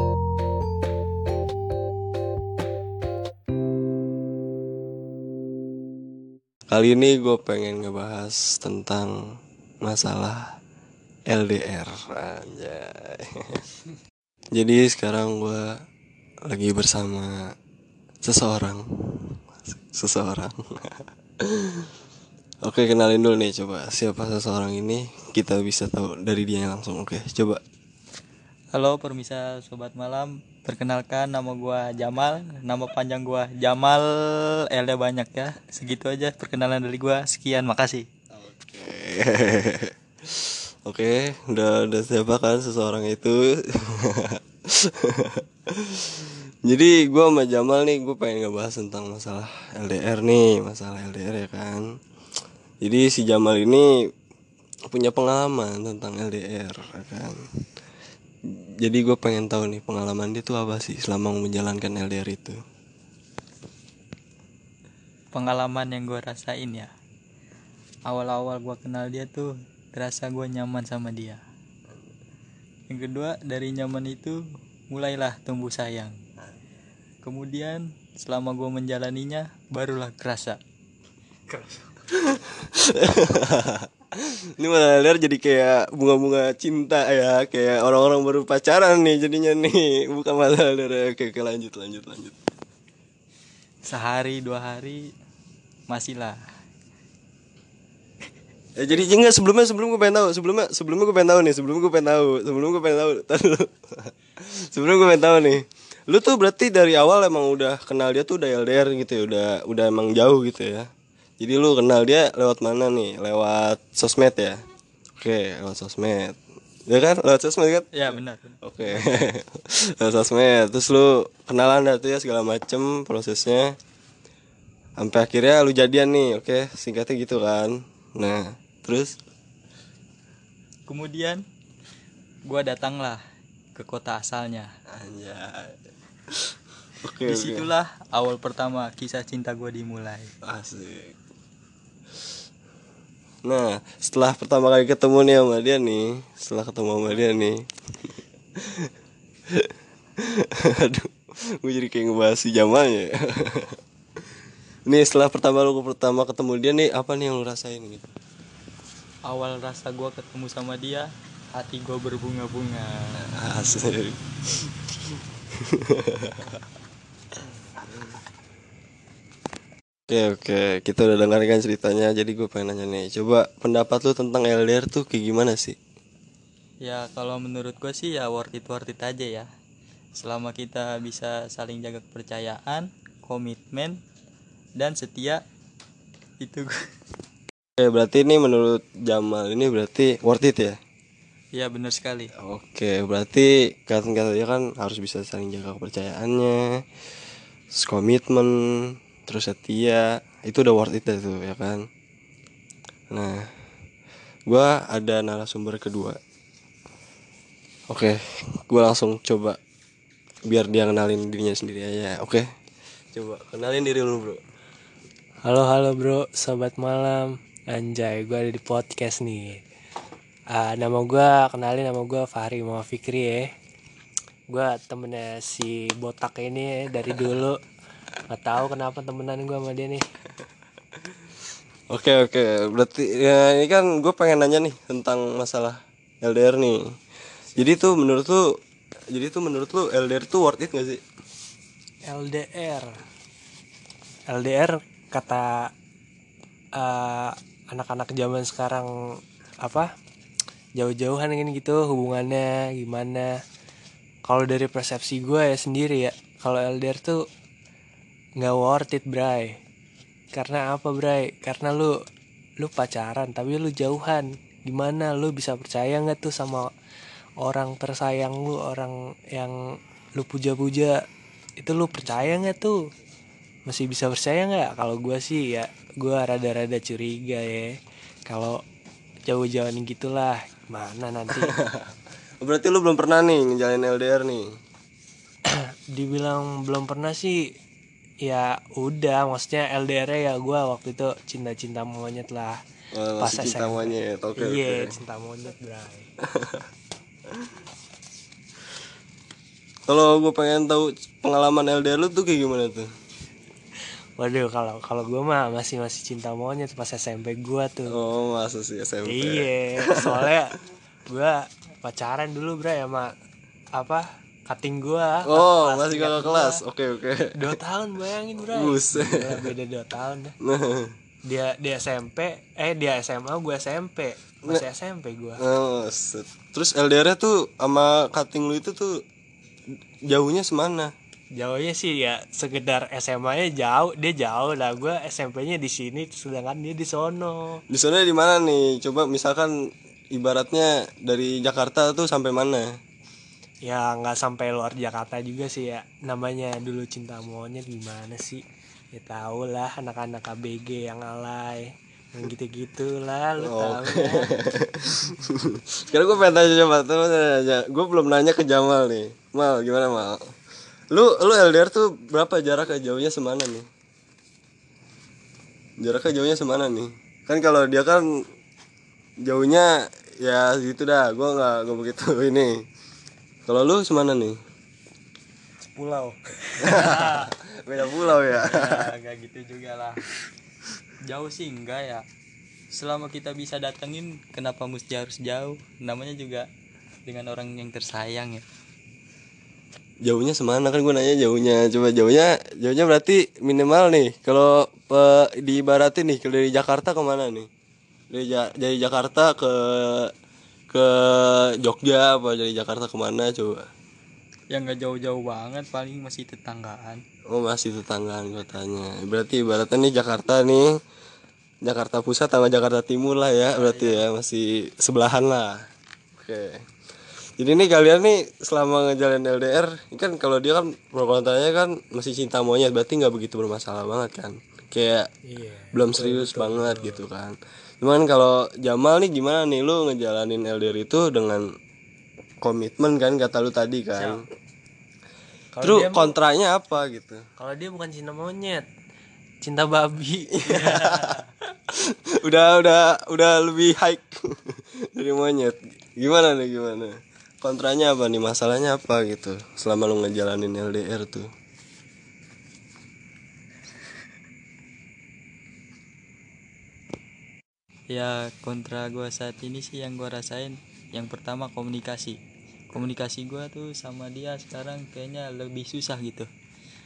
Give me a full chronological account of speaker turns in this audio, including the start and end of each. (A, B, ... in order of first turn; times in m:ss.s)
0:06.7-0:09.1 A
0:09.8-0:10.4 A
0:11.3-0:13.6 A
0:14.5-0:15.6 A
0:16.5-0:17.3 A
0:18.2-0:21.9 A
0:22.6-0:27.6 A
0:28.7-0:38.0 B
0:38.4-0:51.8 A
0:52.8-0:53.9 A
0:54.9-0:57.3 A
0:58.8-1:02.6 A
1:05.3-1:06.9 B
1:08.1-1:11.4 B
1:12.9-1:16.2 B
1:17.2-1:20.6 B
1:21.5-1:21.9 C
1:22.1-1:32.4 A
1:33.8-1:35.1 B
1:35.9-1:36.4 B
1:38.8-1:50.9 A
1:51.4-1:54.6 A
1:55.2-1:56.4 A
1:56.9-1:58.0 A
1:57.9-1:59.1 B
1:58.6-2:03.7 A
2:05.0-2:09.1 A
2:10.9-2:11.4 B
2:12.5-2:13.2 B
2:13.7-2:14.7 B
2:14.9-2:15.7 A
2:17.0-2:17.7 A
2:17.2-2:20.3 B
2:20.4-2:21.2 A
2:23.4-2:27.6 A
2:28.6-2:28.9 A
2:30.2-2:33.8 A
2:34.9-2:38.1 A
2:39.3-2:43.2 B
2:43.2-2:44.7 A
2:45.6-2:46.6 A
2:50.1-2:55.8 A
2:56.8-2:59.4 B
3:00.2-3:04.0 B
3:04.8-3:05.4 B
3:06.4-3:06.7 B
3:07.8-3:10.8 A
3:11.5-3:12.3 B
3:12.4-3:16.6 A
3:17.8-3:18.5 A
3:19.3-3:21.8 A
3:23.1-3:23.4 A
3:24.5-3:26.2 A
3:27.9-3:29.6 A
3:30.5-3:32.4 A
3:33.1-3:34.4 A
3:35.5-3:39.6 C
3:40.5-3:43.5 C
3:44.5-3:47.6 C
3:48.3-3:50.0 C
3:51.9-3:56.8 A
3:57.6-3:58.4 A
3:59.1-4:01.0 A
4:02.1-4:02.9 C
4:04.3-4:05.6 C
4:06.8-4:08.9 C
4:10.8-4:13.3 C
4:14.2-4:17.2 C
4:18.4-4:19.5 C
4:20.3-4:21.9 C
4:22.6-4:26.7 C
4:27.4-4:29.5 C
4:30.2-4:31.0 C
4:31.6-4:32.8 C
4:33.7-4:37.7 C
4:38.3-4:38.6 C
4:39.3-4:41.5 C
4:41.4-4:41.8 A
4:42.4-4:44.4 A
4:45.6-4:47.4 C
4:48.2-4:52.5 C
4:52.9-4:55.0 A
4:53.2-4:56.1 C
4:56.3-4:56.6 A
4:59.9-5:02.9 A
5:04.2-5:07.9 C
5:07.9-5:10.3 A
5:09.0-5:10.5 C
5:11.1-5:13.1 C
5:13.8-5:16.6 C
5:15.2-5:17.4 A
5:17.4-5:20.3 C
5:18.5-5:19.2 A
5:20.4-5:20.9 A
5:21.3-5:25.4 C
5:25.4-5:28.9 A
5:30.1-5:30.9 A
5:31.4-5:37.6 C
5:37.7-5:39.5 A
5:40.1-5:42.6 A
5:43.6-5:48.4 C
5:48.9-5:54.3 C
5:53.4-6:00.2 A
6:00.9-6:03.6 A
6:05.8-6:08.0 A
6:09.2-6:12.5 A
6:13.5-6:14.4 A
6:15.7-6:17.2 C
6:16.6-6:18.9 A
6:18.4-6:20.0 B
6:21.0-6:22.0 B
6:22.7-6:26.5 B
6:27.0-6:28.4 B
6:30.0-6:37.5 A
6:38.1-6:40.1 A
6:40.7-6:43.6 A
6:44.5-6:47.0 B
6:47.3-6:50.6 A
6:51.6-6:55.6 A
6:53.5-6:54.0 B
6:56.2-6:56.6 A
6:57.4-7:05.1 A
7:05.3-7:07.0 C
7:05.7-7:11.4 A
7:12.4-7:14.2 A
7:15.5-7:16.1 C
7:15.6-7:17.2 A
7:17.4-7:18.6 C
7:19.4-7:21.1 C
7:20.4-7:21.1 A
7:21.8-7:31.3 A
7:37.9-7:42.2 B
7:42.7-7:46.3 B